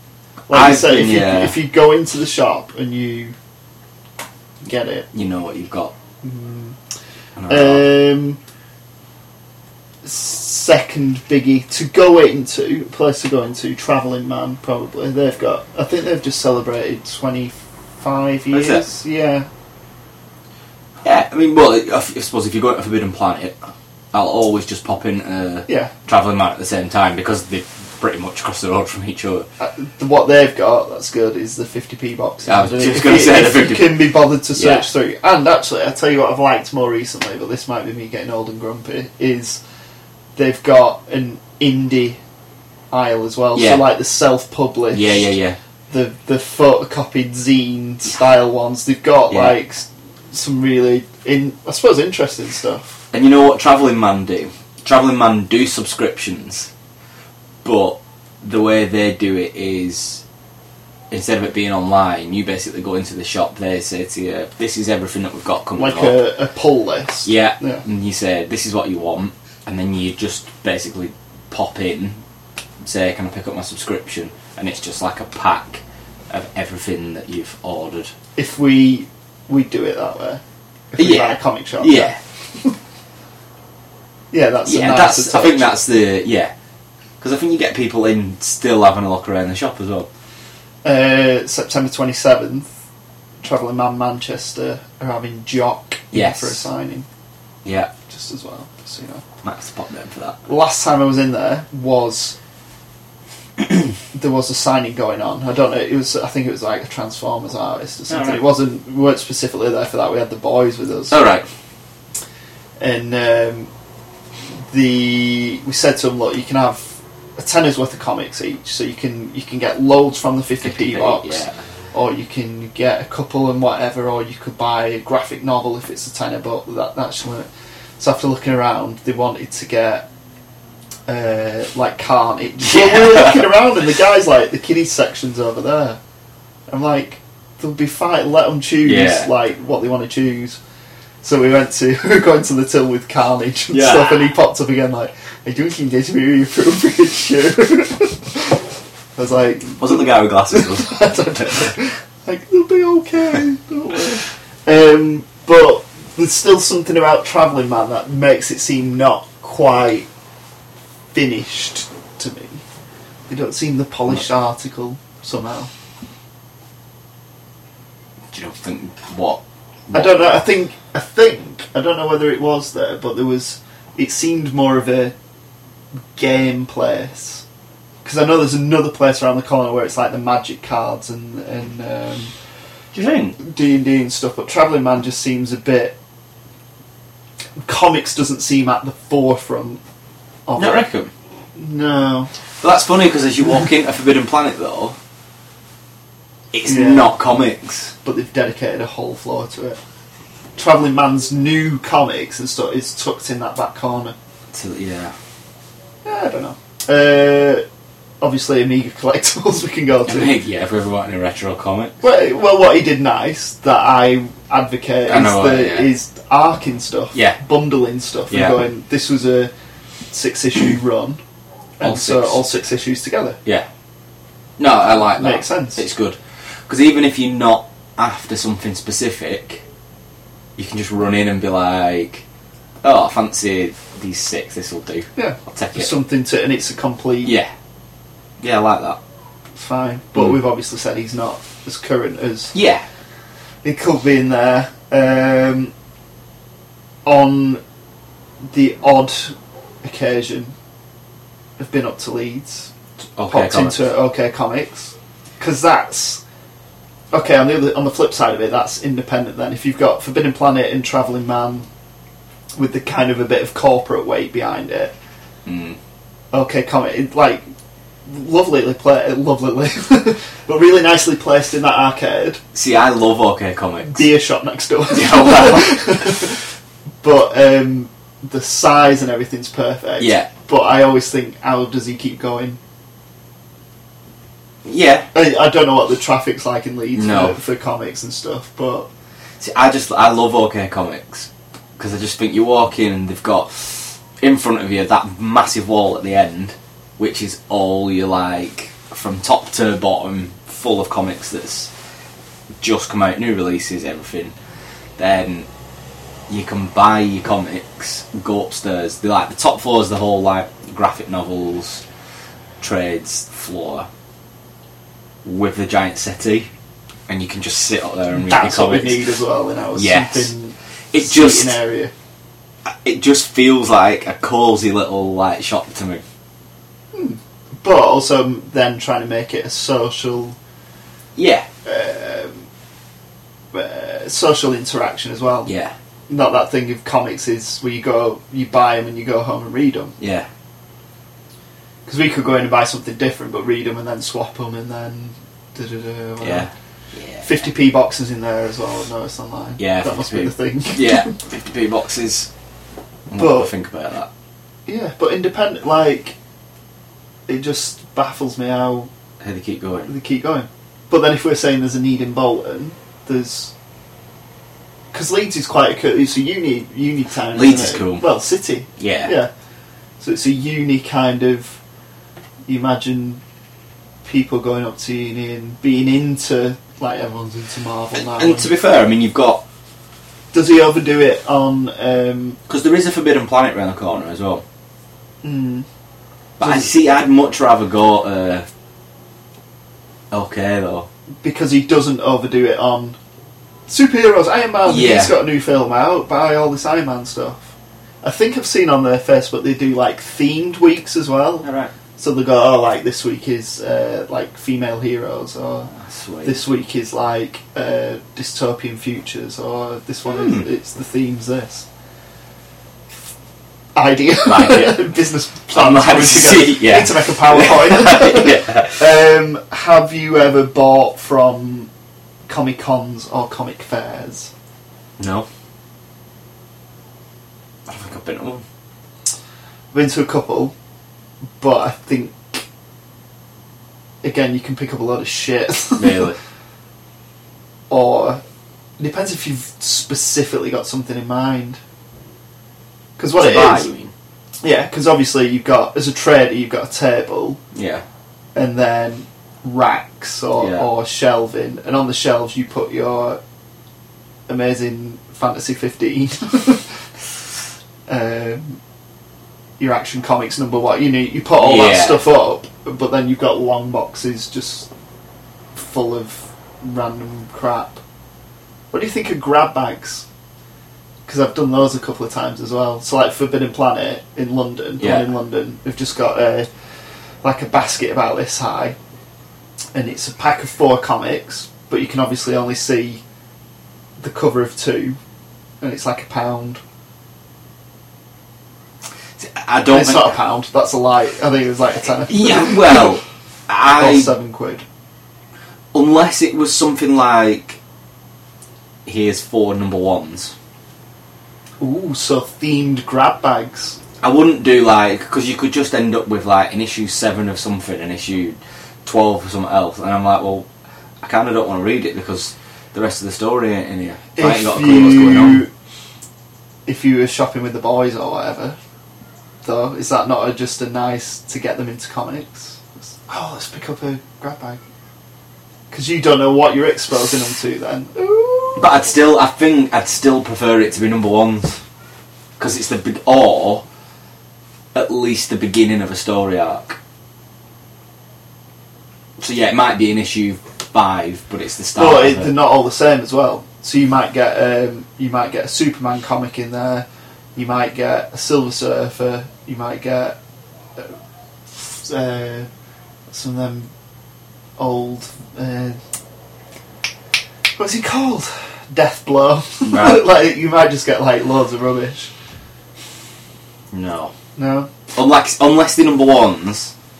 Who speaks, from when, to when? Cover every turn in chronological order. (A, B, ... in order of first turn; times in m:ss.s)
0:00.5-0:03.3 A
0:00.5-0:01.6 B
0:04.6-0:05.1 A
0:05.1-0:05.9 B
0:06.2-0:06.8 A
0:07.4-0:07.9 B
0:07.5-0:08.4 A
0:10.0-0:19.5 A
0:18.5-0:18.8 B
0:21.0-0:29.5 B
0:25.7-0:25.9 A
0:29.6-0:39.6 A
0:32.4-0:34.8 B
0:40.4-0:42.2 A
0:42.9-0:45.3 A
0:43.5-0:43.8 B
0:44.9-0:45.6 B
0:45.9-0:53.0 A
0:49.3-0:49.6 B
0:53.1-0:56.7 B
0:57.6-1:00.2 B
1:01.1-1:06.2 B
1:05.8-1:07.8 A
1:07.2-1:12.2 B
1:12.8-1:18.1 B
1:18.4-1:22.7 A
1:21.0-1:22.2 B
1:24.3-1:25.8 A
1:24.6-1:26.5 B
1:27.2-1:30.1 B
1:30.8-1:32.7 A
1:33.4-1:37.1 A
1:36.1-1:36.7 B
1:37.6-1:37.9 B
1:38.1-1:39.2 A
1:39.4-1:40.4 B
1:40.4-1:42.4 A
1:44.1-1:51.2 A
1:48.1-1:48.4 B
1:51.1-1:51.5 B
1:52.8-1:53.7 A
1:54.7-2:01.4 A
2:00.6-2:01.6 B
2:01.9-2:07.5 A
2:08.0-2:10.1 A
2:11.1-2:16.0 A
2:12.6-2:13.5 B
2:16.7-2:20.6 A
2:18.8-2:19.3 B
2:21.2-2:28.6 A
2:23.7-2:24.3 B
2:29.2-2:40.1 A
2:29.8-2:31.7 B
2:41.1-2:42.6 A
2:43.3-2:45.7 A
2:48.3-2:50.4 B
2:49.9-2:55.1 A
2:56.1-2:57.4 A
2:58.0-3:02.3 A
3:02.9-3:03.4 B
3:03.4-3:06.0 A
3:07.6-3:09.8 A
3:10.5-3:10.8 A
3:10.6-3:11.1 B
3:11.6-3:12.3 A
3:12.6-3:15.0 B
3:16.5-3:17.9 B
3:16.6-3:17.2 A
3:18.0-3:19.8 A
3:20.6-3:24.1 A
3:24.5-3:25.1 B
3:26.0-3:27.6 A
3:28.2-3:30.4 A
3:30.0-3:32.0 B
3:32.0-3:39.5 A
3:35.1-3:35.9 B
3:37.1-3:37.4 B
3:38.3-3:38.6 B
3:40.1-3:41.2 A
3:41.8-3:43.4 A
3:41.8-3:42.4 B
3:44.6-3:49.6 B
3:45.2-3:45.8 A
3:50.6-3:52.2 B
3:52.8-3:55.9 B
3:55.2-3:57.4 A
3:57.2-3:57.5 B
3:58.4-3:59.0 B
3:59.6-4:02.5 A
4:02.5-4:02.8 B
4:03.6-4:05.7 A
4:07.0-4:07.6 A
4:08.5-4:10.5 A
4:11.6-4:12.7 A
4:13.2-4:13.8 B
4:13.3-4:16.2 A
4:17.1-4:21.7 A
4:22.6-4:24.9 A
4:25.4-4:25.8 B
4:26.3-4:27.4 A
4:28.1-4:32.4 A
4:32.5-4:34.1 B
4:33.9-4:36.4 A
4:34.9-4:36.0 B
4:37.0-4:42.6 A
4:40.0-4:40.3 B
4:44.6-4:45.1 B
4:45.1-4:48.9 A
4:46.9-4:47.4 B
4:49.4-5:01.7 B
5:02.6-5:04.3 B
5:05.0-5:05.5 B
5:06.3-5:11.8 B
5:12.6-5:13.9 B
5:15.2-5:16.5 B
5:17.1-5:19.1 B
5:18.1-5:21.9 A
5:19.7-5:20.3 B
5:20.9-5:21.6 B
5:22.6-5:26.0 B
5:26.9-5:30.4 A
5:31.2-5:31.5 B
5:31.6-5:32.4 A
5:33.5-5:35.5 A
5:35.4-5:35.7 B
5:36.1-5:39.9 A
5:40.0-5:40.3 B
5:41.9-5:46.5 A
5:46.2-5:47.3 B
5:47.2-5:51.2 A
5:49.6-5:52.3 B
5:53.1-5:54.1 B
5:53.1-5:53.5 A
5:54.7-5:56.2 A
5:57.3-5:58.9 A
5:59.2-5:59.9 B
5:59.9-6:03.5 A
6:04.9-6:09.3 A
6:07.3-6:08.1 B
6:08.8-6:09.1 B
6:10.0-6:11.6 A
6:12.5-6:13.2 A
6:14.0-6:18.5 A
6:17.9-6:19.4 B
6:20.3-6:22.4 A
6:22.5-6:24.4 B
6:25.2-6:25.6 A
6:26.4-6:28.5 B
6:26.4-6:26.7 A
6:30.1-6:30.9 B
6:31.2-6:33.0 A
6:33.7-6:45.7 A
6:34.6-6:35.2 B
6:41.4-6:41.7 B
6:45.8-6:46.4 B
6:46.2-6:51.6 A
6:50.1-6:50.5 B
6:53.8-7:01.7 A
6:54.2-6:54.9 B
6:55.5-6:58.9 B
7:02.3-7:04.3 A
7:05.0-7:05.3 B
7:07.7-7:08.4 B
7:09.7-7:10.5 A
7:11.4-7:12.4 A
7:14.0-7:16.1 A
7:15.8-7:16.2 B
7:17.7-7:18.2 A
7:18.8-7:21.6 A
7:23.0-7:23.7 A
7:23.2-7:23.9 B
7:24.4-7:27.4 A
7:27.5-7:27.8 B
7:28.3-7:33.2 A
7:30.4-7:30.7 B
7:34.3-7:36.7 A
7:37.9-7:38.6 A
7:39.6-7:44.7 A
7:41.4-7:42.0 B
7:45.5-7:47.8 A
7:48.7-7:50.0 A
7:51.0-7:56.5 A
7:54.8-7:55.1 B
7:57.2-7:58.8 A
7:59.7-8:03.0 A
8:04.0-8:05.0 A
8:05.6-8:06.6 A
8:09.2-8:10.1 B
8:09.7-8:13.0 A
8:12.0-8:14.1 B
8:13.7-8:14.6 A
8:15.7-8:17.6 B
8:18.8-8:20.3 B
8:21.6-8:23.8 A
8:24.0-8:30.5 B
8:31.0-8:35.4 B
8:34.2-8:35.5 A
8:36.6-8:38.6 A
8:39.4-8:44.6 A
8:45.7-8:48.8 A
8:48.6-8:51.6 B
8:52.4-8:53.6 B
8:54.7-8:56.8 B
8:59.2-9:02.3 B
9:01.8-9:10.2 A
9:11.5-9:12.5 A
9:13.1-9:13.7 A
9:14.6-9:15.8 A
9:17.6-9:22.1 A
9:19.6-9:20.1 B
9:23.7-9:24.1 B
9:24.4-9:24.7 A
9:24.9-9:26.7 B